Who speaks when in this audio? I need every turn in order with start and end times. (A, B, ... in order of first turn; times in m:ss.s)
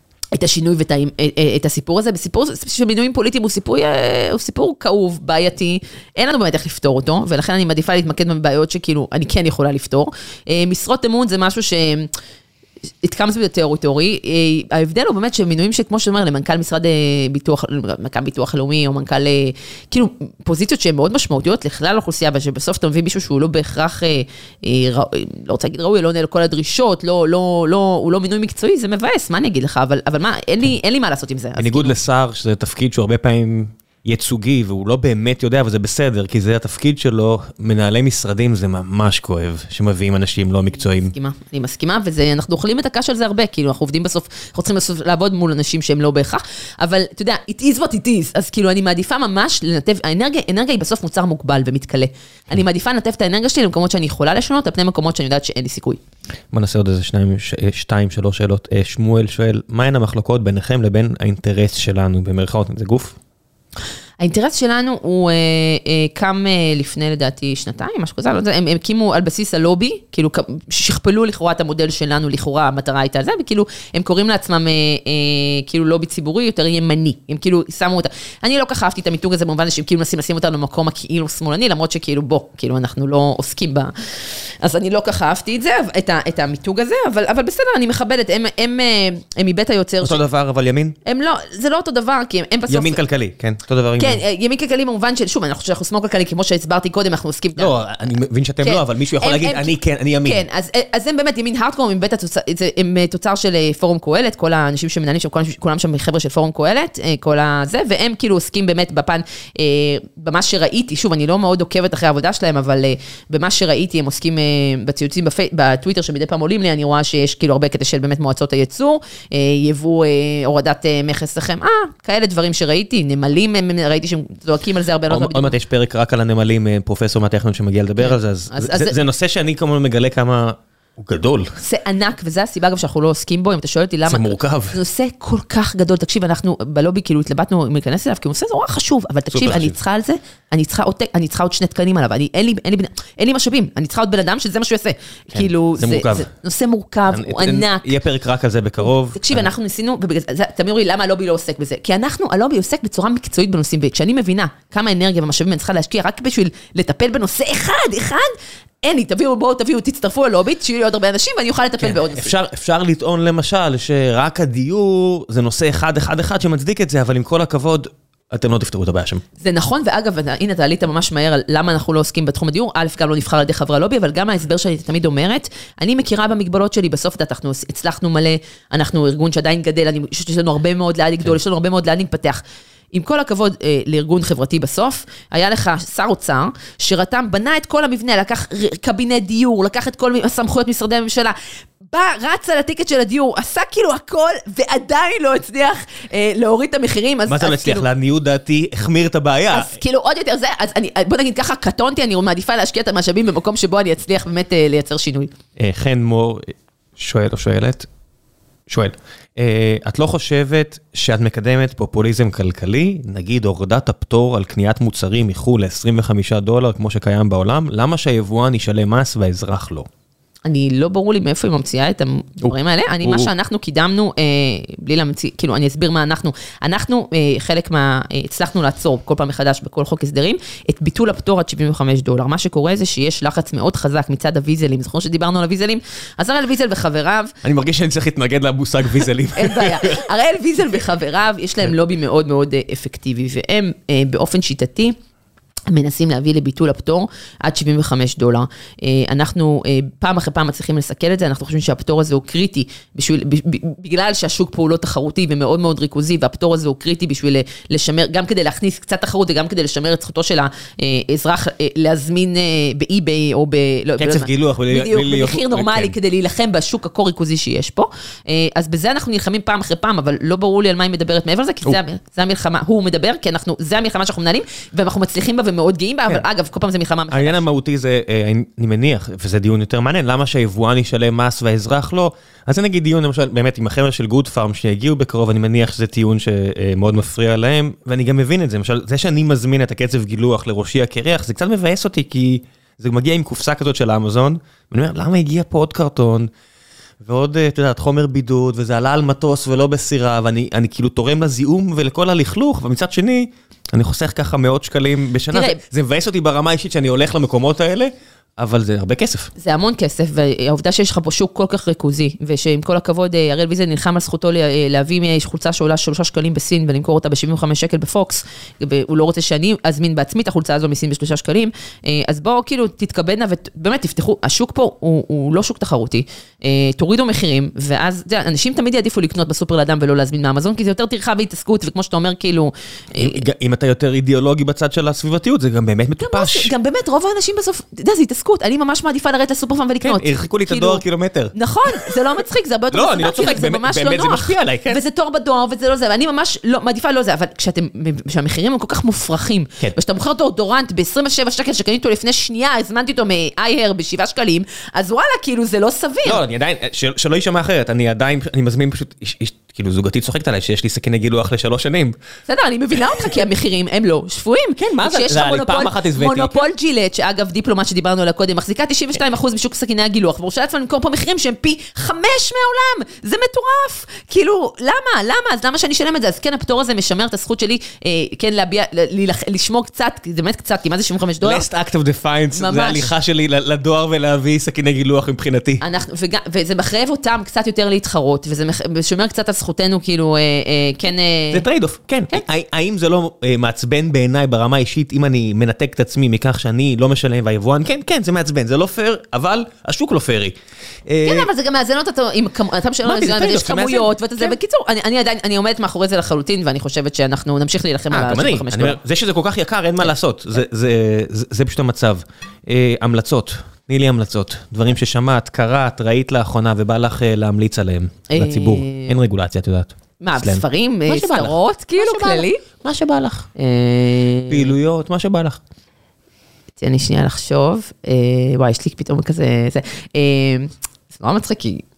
0:00.3-0:12.1 A
0:13.0-0:32.0 A
0:31.6-0:41.1 B
0:40.8-0:56.0 A
0:56.5-1:03.2 B
1:04.2-1:30.2 A
1:30.0-1:31.0 B
1:31.0-1:33.0 A
1:32.7-1:34.2 B
1:34.0-1:37.7 A
1:37.6-1:40.4 B
1:38.6-2:05.5 A
2:05.1-2:11.6 B
2:08.0-2:09.0 A
2:11.6-2:27.9 A
2:14.1-2:14.8 B
2:19.3-2:19.8 B
2:25.3-2:26.3 B
2:27.1-2:29.5 B
2:29.1-2:42.3 A
2:41.8-2:49.2 B
2:49.4-3:17.9 A
3:17.3-3:19.8 B
3:19.5-3:25.3 A
3:25.6-3:27.9 B
3:28.7-3:39.9 B
3:40.4-3:57.4 A
3:43.0-3:43.3 B
3:57.4-4:00.0 B
3:59.4-4:05.0 A
4:05.7-4:37.4 A
4:24.0-4:25.9 B
4:37.1-4:56.3 B
4:57.0-5:09.3 B
5:05.3-5:05.6 A
5:09.4-5:33.2 A
5:33.0-5:36.5 B
5:36.0-5:40.8 A
5:39.8-5:42.0 B
5:41.3-5:56.2 A
5:42.7-5:44.8 B
5:56.0-6:02.0 B
6:02.3-6:21.4 A
6:02.9-6:03.2 B
6:04.6-6:06.4 B
6:21.2-6:25.6 B
6:22.3-6:22.9 A
6:25.6-6:31.4 A
6:31.3-6:41.3 B
6:41.0-6:48.8 A
6:42.8-6:44.3 B
6:47.9-7:03.3 B
6:58.1-6:59.0 A
7:00.0-7:02.4 A
7:03.4-7:04.5 A
7:04.3-7:05.4 B
7:06.6-7:11.6 A